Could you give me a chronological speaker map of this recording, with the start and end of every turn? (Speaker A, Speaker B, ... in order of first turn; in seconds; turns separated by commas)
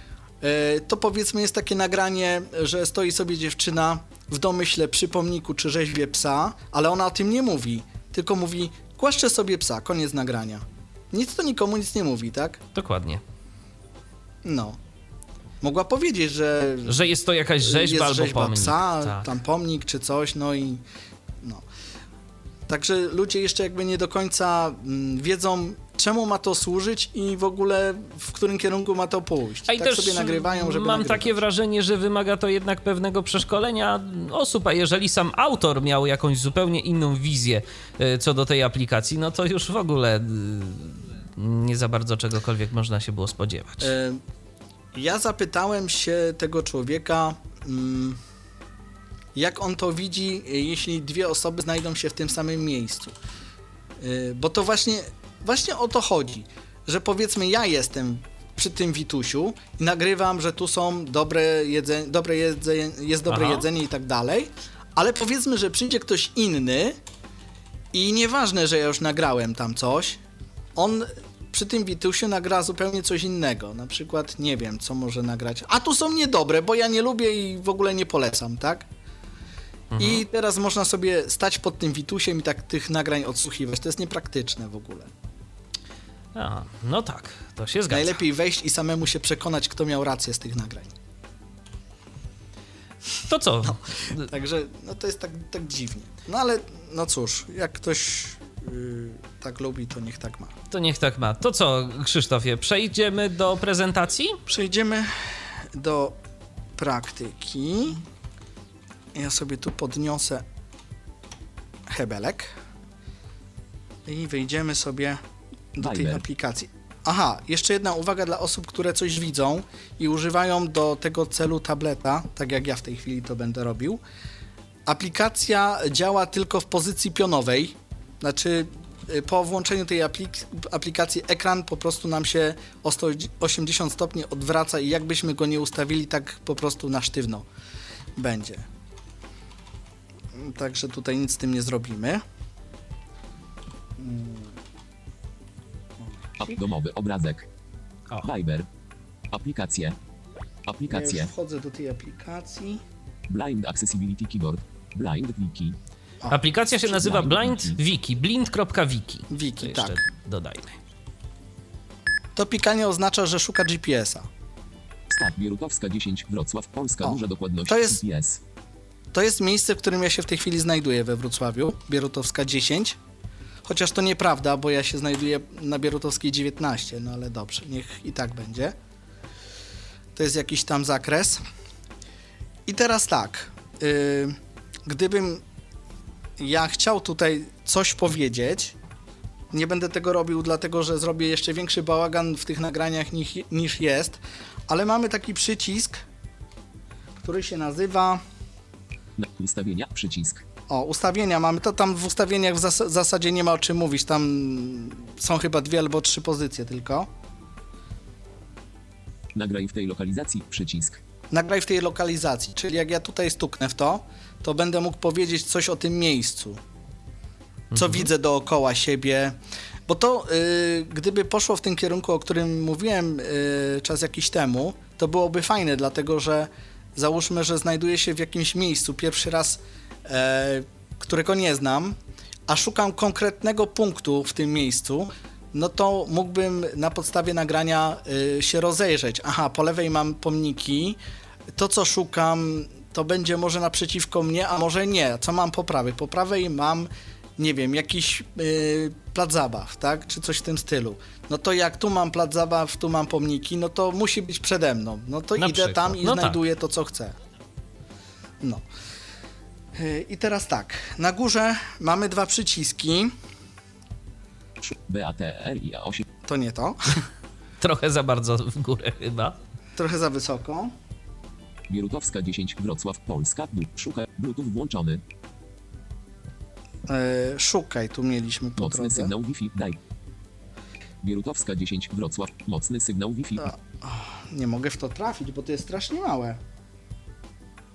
Speaker A: 0.4-12.6, Speaker B: 12.7-13.2, Speaker A: 14.4-14.8, Speaker A: 15.6-17.1, Speaker B: 16.9-19.3, Speaker A: 17.6-20.8, Speaker A: 22.7-31.4, Speaker B: 29.7-43.9, Speaker A: 43.8-44.2, Speaker A: 44.9-48.2, Speaker A: 49.3-53.1, Speaker A: 54.0-67.0, Speaker B: 63.3-63.7, Speaker A: 67.9-70.2, Speaker A: 70.7-78.9, Speaker B: 79.9-80.2, Speaker A: 80.0-85.1, Speaker B: 86.3-88.2, Speaker A: 87.9-90.9, Speaker B: 93.2-94.3, Speaker A: 93.6-100.5, Speaker B: 100.7-104.4, Speaker A: 104.5-106.2, Speaker A: 106.8-108.0, Speaker A: 109.1-110.4, Speaker A: 111.9-112.6, Speaker A: 114.0-115.2, Speaker A: 115.7-124.0, Speaker C: 115.8-116.2, Speaker A: 124.8-137.4, Speaker A: 138.2-138.7, Speaker A: 140.3-142.2, Speaker A: 144.0-144.6, Speaker A: 146.0-146.6, Speaker C: 146.4-147.5, Speaker C: 148.2-148.7, Speaker C: 149.3-149.9, Speaker C: 150.6-151.3, Speaker A: 150.9-152.8, Speaker C: 153.3-155.8, Speaker A: 156.2-157.0, Speaker B: 156.3-160.8, Speaker C: 156.8-157.8, Speaker A: 159.3-160.0, Speaker A: 162.3-164.3, Speaker C: 165.1-168.4, Speaker A: 167.0-168.0, Speaker A: 169.1-173.0, Speaker A: 173.6-178.8, Speaker A: 180.1-181.4, Speaker A: 182.7-185.4, Speaker A: 186.4-188.8, Speaker A: 189.5-196.0, Speaker A: 197.2-198.2, Speaker C: 199.2-200.4, Speaker A: 200.7-207.1, Speaker C: 209.3-211.0, Speaker A: 211.3-216.6, Speaker B: 217.7-218.1, Speaker A: 217.7-219.4, Speaker A: 219.9-241.0, Speaker A: 241.5-257.2, Speaker B: 255.4-256.4, Speaker A: 259.7-263.1, Speaker C: 264.6-266.0, Speaker A: 266.2-267.1, Speaker B: 267.6-269.4, Speaker A: 269.8-270.7, Speaker C: 271.7-275.0, Speaker A: 276.9-279.1, Speaker C: 278.6-279.8, Speaker C: 281.0-283.5, Speaker A: 283.4-286.4